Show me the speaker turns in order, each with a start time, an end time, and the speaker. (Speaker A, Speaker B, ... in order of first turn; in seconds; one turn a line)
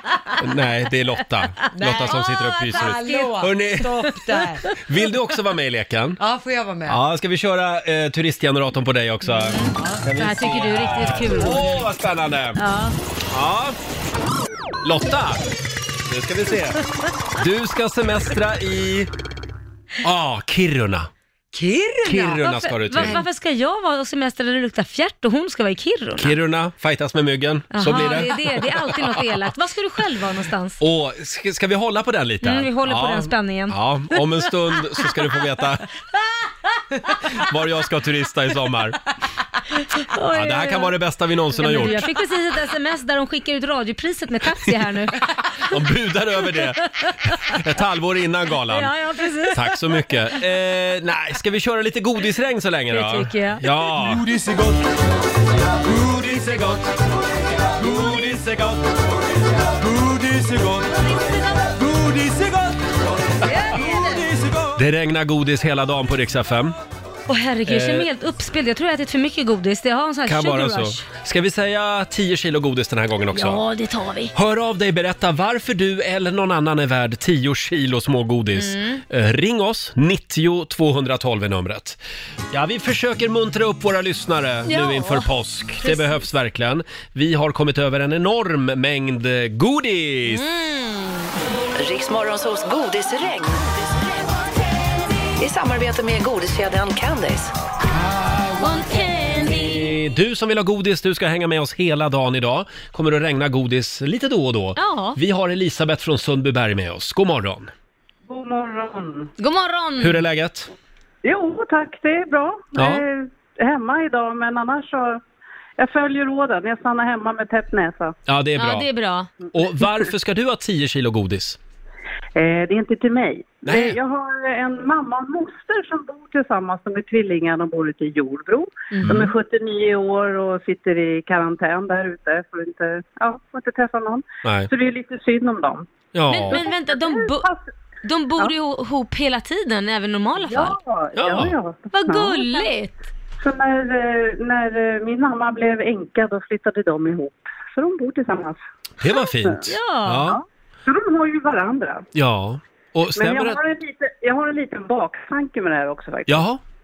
Speaker A: 0.4-4.1
Speaker B: 1.8-4.7
Speaker C: 1.8-3.3
Speaker A: 4.7-6.2
Speaker B: 6.2-7.0
Speaker A: 6.9-12.6
Speaker C: 9.2-11.8
Speaker C: 12.6-12.9
Speaker A: 13.3-13.8
Speaker A: 14.8-15.4
Speaker A: 16.1-16.8
Speaker A: 17.4-19.1
Speaker A: 20.0-21.1
Speaker B: 21.5-22.4
Speaker A: 22.1-23.2
Speaker C: 22.4-26.4
Speaker A: 26.2-29.2
Speaker C: 27.7-30.8
Speaker A: 30.8-35.9
Speaker C: 32.4-35.1
Speaker A: 37.3-39.0
Speaker C: 39.8-40.9
Speaker A: 40.3-42.1
Speaker C: 41.5-45.6
Speaker A: 45.6-48.9
Speaker C: 46.8-47.4
Speaker C: 48.7-49.8
Speaker A: 49.5-54.2
Speaker C: 52.9-53.9
Speaker D: 54.0-54.9
Speaker D: 55.8-57.0
Speaker D: 57.7-64.8
Speaker C: 63.4-64.3
Speaker A: 64.8-66.8
Speaker C: 67.3-71.0
Speaker A: 67.7-68.1
Speaker A: 70.3-73.7
Speaker C: 73.3-74.3
Speaker A: 74.3-82.0
Speaker C: 78.6-79.0
Speaker A: 82.5-90.5
Speaker C: 84.7-85.3
Speaker C: 85.8-86.2
Speaker C: 90.3-91.3
Speaker E: 91.8-93.9
Speaker E: 95.4-97.5
Speaker A: 98.0-107.7
Speaker C: 98.6-99.8
Speaker C: 104.8-105.2
Speaker F: 108.3-109.3
Speaker C: 109.4-110.2
Speaker A: 110.0-110.7
Speaker F: 111.2-115.2
Speaker A: 112.8-113.0
Speaker F: 115.8-118.2
Speaker A: 118.3-118.9
Speaker C: 118.6-119.3
Speaker A: 119.5-121.6
Speaker F: 122.4-135.9
Speaker A: 123.6-124.0
Speaker C: 128.9-129.2
Speaker A: 129.0-129.3
Speaker A: 134.4-134.7
Speaker A: 136.1-136.7
Speaker C: 136.3-137.5
Speaker F: 136.5-137.6
Speaker C: 138.1-140.8
Speaker F: 140.4-142.7
Speaker A: 141.2-141.6
Speaker C: 141.9-142.9
Speaker F: 143.4-148.6
Speaker A: 149.0-150.4
Speaker C: 149.7-150.4
Speaker F: 150.3-152.0
Speaker A: 152.2-153.6
Speaker F: 153.2-156.5
Speaker A: 156.3-156.6